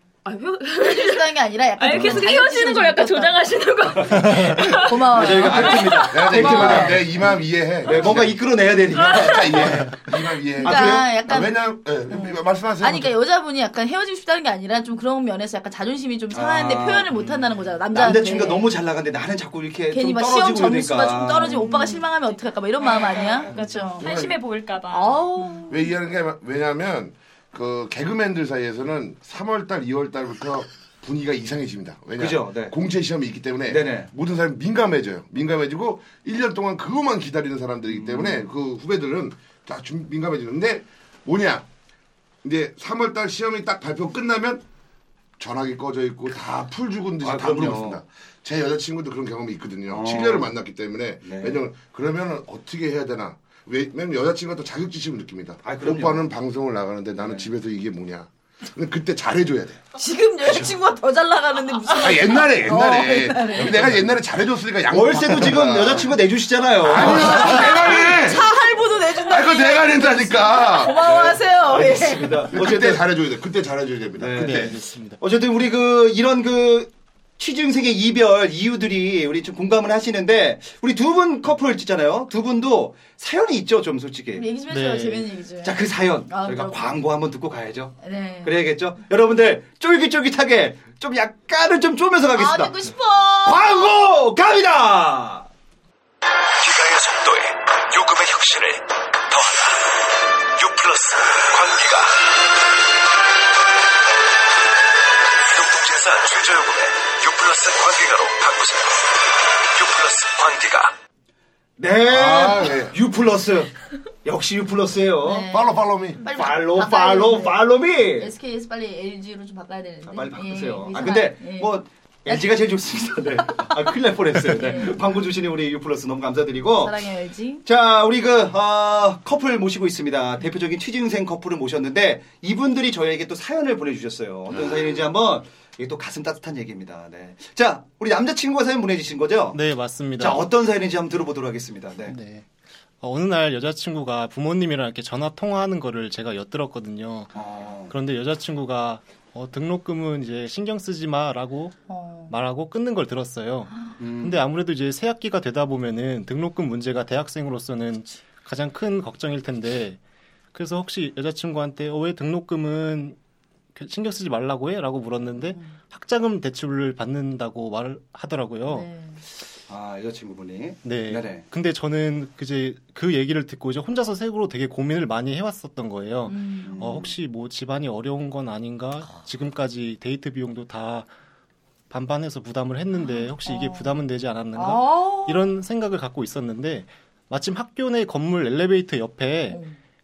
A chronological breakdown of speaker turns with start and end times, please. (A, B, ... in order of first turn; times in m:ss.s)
0:00.2-0:06.7 A
0:00.8-0:03.4 B
0:04.0-0:10.0 C
0:04.1-0:07.0 B
0:05.6-0:08.4 D
0:08.9-0:09.7 A
0:09.1-0:13.1 D
0:10.6-0:18.7 B
0:10.6-0:11.2 C
0:16.3-0:17.3 C
0:17.9-0:21.8 C
0:19.9-0:24.1 B
0:21.5-0:22.0 A
0:22.8-0:25.4 A
0:24.0-0:24.4 D
0:24.9-0:25.8 B
0:25.7-0:41.6 D
0:32.2-0:32.7 C
0:33.7-0:34.1 C
0:37.9-0:38.5 C
0:42.4-0:44.6 D
0:45.4-0:59.8 D
0:47.2-0:48.0 C
0:49.9-0:50.5 C
0:51.2-0:51.6 C
0:55.6-0:56.3 C
0:57.2-0:57.5 C
1:00.0-1:03.8 B
1:00.4-1:00.7 C
1:01.9-1:06.2 D
1:03.6-1:03.8 C
1:04.9-1:08.1 C
1:06.8-1:08.5 D
1:07.0-1:12.4 B
1:09.2-1:11.3 D
1:11.0-1:13.1 C
1:12.5-1:14.8 D
1:14.2-1:24.4 C
1:14.4-1:15.2 E
1:24.3-1:27.0 B
1:24.7-1:25.3 E
1:25.6-1:32.7 C
1:28.0-1:28.5 B
1:32.3-1:33.6 B
1:33.4-1:35.5 C
1:36.6-1:42.3 F
1:45.5-1:50.9 F
1:51.8-1:53.7 C
1:52.1-1:53.0 D
1:54.2-1:55.5 C
1:55.2-1:57.6 B
1:55.5-1:56.2 D
1:56.3-1:58.3 C
1:58.2-2:01.7 B
2:00.0-2:07.1 C
2:04.4-2:05.0 B
2:06.8-2:07.6 B
2:07.6-2:19.6 C
2:19.5-2:20.5 E
2:20.2-2:22.2 C
2:22.1-2:22.5 E
2:23.0-2:27.3 E
2:27.3-2:27.9 C
2:27.9-2:31.8 E
2:31.9-2:32.3 B
2:32.3-2:40.0 E
2:34.0-2:34.4 C
2:40.5-2:43.2 E
2:43.7-2:48.9 E
2:48.7-2:49.2 B
2:49.7-2:51.4 C
2:50.8-3:01.1 E
2:56.3-2:56.9 B
2:56.7-2:57.1 C
3:01.9-3:09.6 E
3:03.4-3:04.0 B
3:04.5-3:05.5 B
3:09.5-3:09.8 B